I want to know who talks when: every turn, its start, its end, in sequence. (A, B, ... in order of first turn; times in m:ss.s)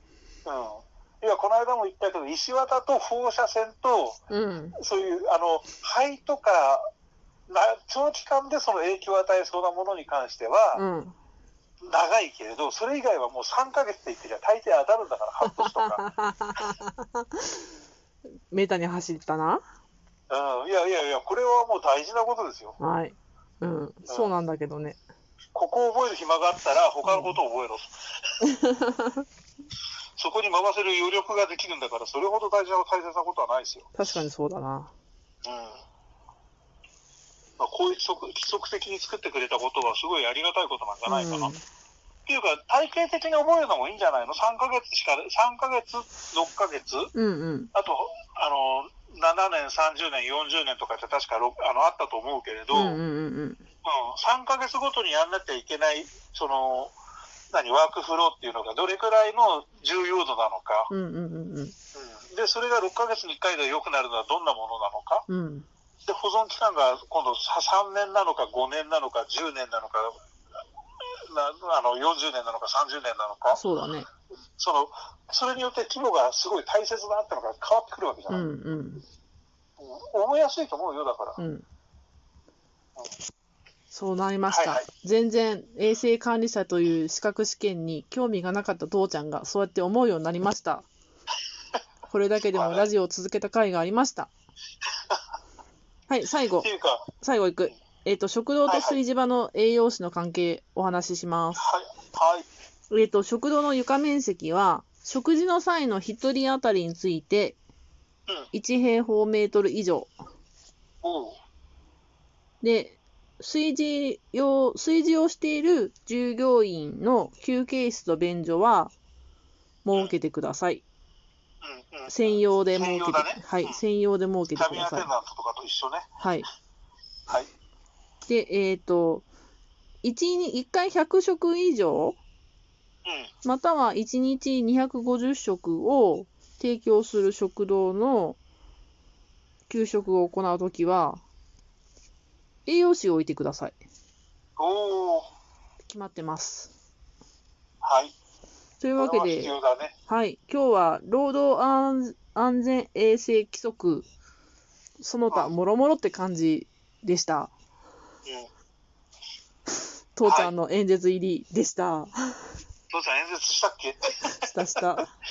0:00.4-0:04.2 A
0:04.3-0:04.8 B
0:04.8-0:06.8 A
0:07.5-0:10.8 A
0:10.8-0:11.2 B
0:11.8-0:16.0 A
0:15.5-0:17.6 B
0:18.5-0:19.6 B
0:20.3-0:22.8 A
0:22.8-0:25.0 B
0:25.5-0:27.9 A
0:27.0-0:27.4 B
0:28.5-0:29.2 B
0:30.2-0:34.0 A
0:34.0-0:34.9 B
0:35.4-0:35.8 A
0:37.6-0:41.5 A
0:41.1-0:41.6 B
0:42.3-0:47.1 A
0:47.1-0:47.7 B
0:47.7-0:53.0 A
0:52.7-0:53.6 B
0:53.8-0:56.9 A
0:57.5-1:00.9 A
1:00.9-1:01.8 B
1:02.0-1:05.3 A
1:05.3-1:05.7 B
1:06.1-1:10.1 A
1:11.3-1:13.6 A
1:13.5-1:14.1 B
1:14.6-1:18.5 A
1:18.3-1:19.0 B
1:19.8-1:21.4 A
1:21.4-1:21.6 B
1:23.9-1:30.9 B
1:24.5-1:24.9 A
1:32.1-1:34.3 B
1:32.5-1:32.9 A
1:36.1-1:41.6 B
1:36.6-1:37.1 A
1:38.7-1:39.0 A
1:41.6-1:42.5 A
1:42.9-1:47.6 B
1:48.5-1:50.1 B
1:51.0-1:51.4 A
1:52.6-1:58.9 B
1:59.8-2:00.8 B
2:01.6-2:03.8 A
2:02.1-2:05.1 B
2:04.5-2:06.1 A
2:06.2-2:06.5 B
2:08.3-2:09.3 B
2:10.0-2:12.2 B
2:13.0-2:13.3 A
2:13.4-2:18.4 B
2:19.7-2:21.2 B
2:22.7-2:23.8 B
2:24.6-2:25.3 A
2:25.8-2:26.7 B
2:27.8-2:28.1 A
2:28.8-2:29.6 B
2:29.0-2:29.9 A
2:30.1-2:34.1 B
2:35.0-2:37.5 B
2:40.2-2:42.5 B
2:40.2-2:40.5 A
2:42.9-2:44.4 A
2:44.3-2:45.1 B